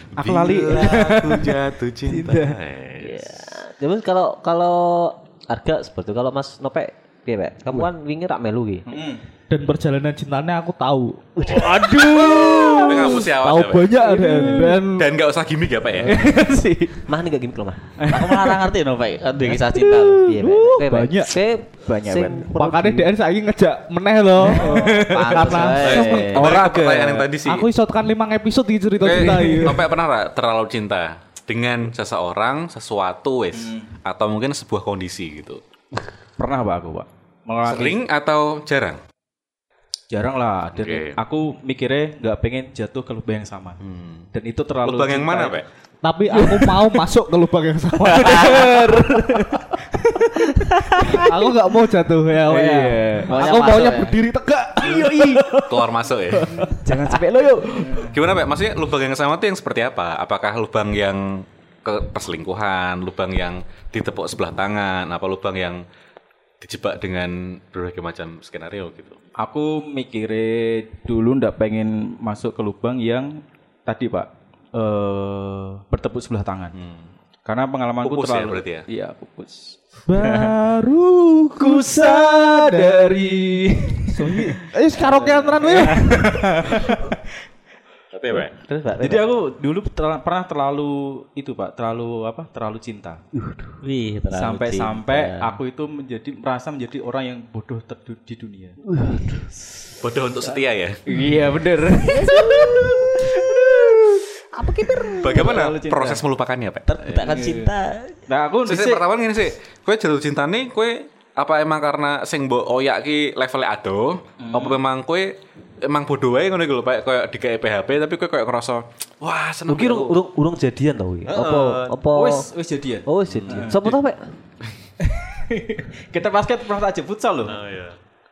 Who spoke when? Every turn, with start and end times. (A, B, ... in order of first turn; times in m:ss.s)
0:00.2-0:02.6 A
0:00.2-0:03.3 B
0:03.0-0:08.9 C
0:08.9-0:09.2 A
0:09.5-0:11.4 D
0:11.4-0:13.2 A
0:11.5-0:12.5 C
0:11.6-0:14.0 B
0:12.3-0:15.1 D
0:14.1-0:14.7 A
0:14.8-0:16.3 B
0:16.0-0:17.0 A
0:17.0-0:17.9 C
0:18.0-0:18.6 A
0:18.1-0:20.2 E
0:19.9-0:21.3 D
0:20.2-0:23.1 C
0:22.0-0:22.5 A
0:22.4-0:26.4 D
0:24.5-0:25.6 A
0:24.8-0:25.3 C
0:24.8-0:26.5 E
0:25.8-0:27.7 B
0:26.2-0:27.3 A
0:27.4-0:29.9 D
0:29.0-0:35.6 B
0:33.5-0:33.9 A
0:36.4-0:38.0 A
0:37.6-0:39.0 B
0:40.1-0:43.8 A
0:40.7-0:41.2 B
0:43.8-0:44.3 B
0:44.3-0:45.5 A
0:44.8-0:45.6 B
0:46.0-0:49.0 D
0:46.3-0:46.9 A
0:48.0-0:51.4 A
0:51.1-0:55.6 D
0:52.5-0:53.4 A
0:53.3-0:54.2 E
0:54.8-0:55.8 A
0:55.7-0:56.7 B
0:56.5-0:58.2 A
0:57.9-1:05.8 B
1:06.6-1:09.2 B
1:09.4-1:16.8 A
1:16.7-1:17.1 B
1:17.4-1:20.5 A
1:18.0-1:18.8 B
1:20.1-1:23.1 D
1:21.6-1:27.3 A
1:24.1-1:26.4 D
1:28.1-1:28.6 B
1:28.6-1:29.3 C
1:29.0-1:33.2 A
1:33.4-1:33.7 C
1:33.8-1:35.6 E
1:34.3-1:38.8 A
1:38.9-1:39.5 C
1:40.0-1:41.0 B
1:41.0-1:44.3 A
1:42.1-1:43.0 E
1:44.6-1:45.5 E
1:44.8-1:46.2 A
1:44.9-1:45.1 C
1:45.2-1:47.4 B
1:46.9-1:48.2 E
1:47.2-1:47.7 A
1:48.3-1:49.0 A
1:48.6-2:00.2 B
1:54.4-1:54.8 A
1:59.7-2:02.5 C
2:01.3-2:02.0 B
2:02.0-2:03.8 A
2:03.0-2:04.3 C
2:03.3-2:04.0 B
2:05.0-2:07.6 A
2:07.4-2:08.0 B